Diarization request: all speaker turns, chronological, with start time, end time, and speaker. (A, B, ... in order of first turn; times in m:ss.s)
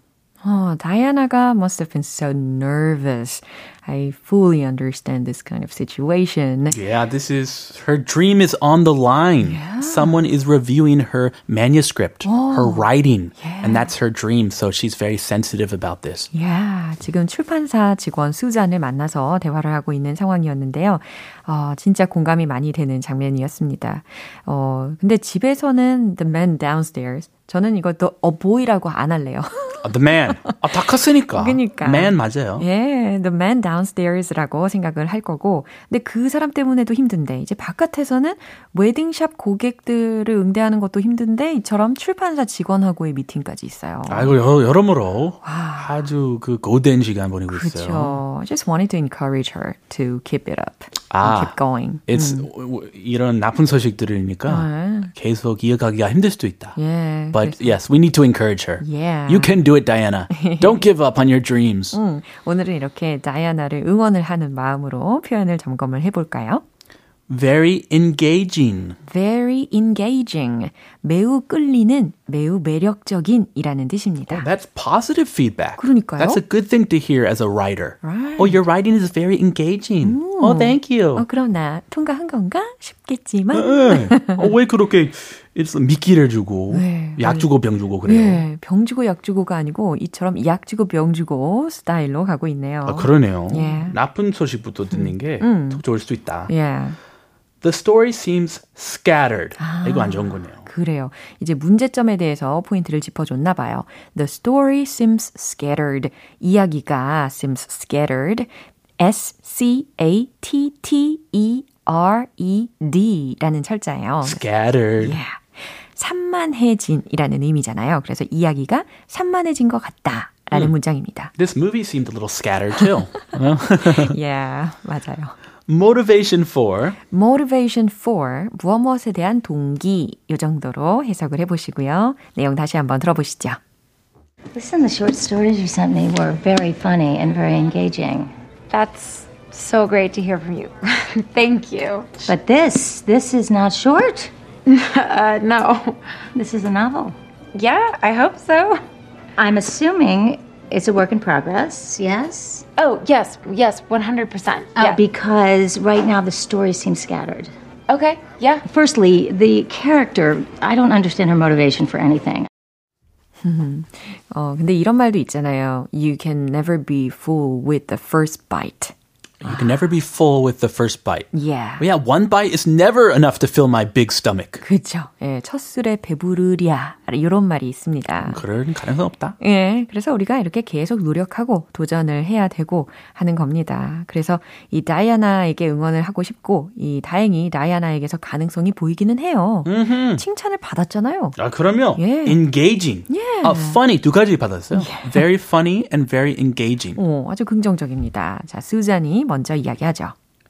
0:00.4-0:06.8 A
0:06.7-0:16.3 B
0:09.4-0:10.2 A
0:12.2-0:13.9 A
0:16.3-0:30.6 A
0:29.8-0:32.6 B
0:31.3-0:44.3 A
0:44.1-0:48.2 B
0:45.4-0:46.1 A
0:47.5-0:52.5 A
0:51.1-0:51.5 B
0:52.1-0:56.8 B
0:54.5-0:55.1 A
0:56.8-0:57.8 A
0:57.3-1:02.0 B
0:58.8-0:59.5 A
1:00.3-1:00.8 A
1:01.9-1:06.6 A
1:07.3-1:09.0 B
1:09.0-1:14.5 A
1:14.3-1:21.2 B
1:15.8-1:16.4 A
1:18.0-1:18.6 A
1:20.0-1:24.5 A
1:23.5-1:28.4 B
1:26.7-1:27.5 A
1:28.0-1:34.0 A
1:32.8-1:36.5 B
1:34.9-1:35.8 A
1:36.5-1:37.0 A
1:37.6-1:40.6 B
1:39.6-1:54.4 A
1:54.2-1:55.2 B
1:55.0-2:01.3 A
2:01.4-2:04.2 B
2:03.8-2:05.4 A
2:05.7-2:07.0 B
2:07.1-2:13.6 A
2:14.5-2:18.3 C
2:18.7-2:22.3 D
2:22.3-2:24.3 C
2:24.6-2:26.0 D
2:26.3-2:27.1 C
2:27.5-2:28.8 D
2:29.4-2:32.6 C
2:32.8-2:35.0 D
2:34.8-2:37.5 C
2:37.9-2:38.6 D
2:38.6-2:42.5 C
2:43.4-2:49.8 A
2:49.4-2:54.6 B
2:51.3-2:51.8 A
2:54.6-2:58.4 A
2:58.2-2:59.4 B
2:59.4-3:11.4 A
3:09.6-3:10.2 B
3:11.4-3:17.0 B
3:12.0-3:12.4 A
3:13.1-3:13.8 A
3:14.7-3:15.2 A
3:17.0-3:20.1 A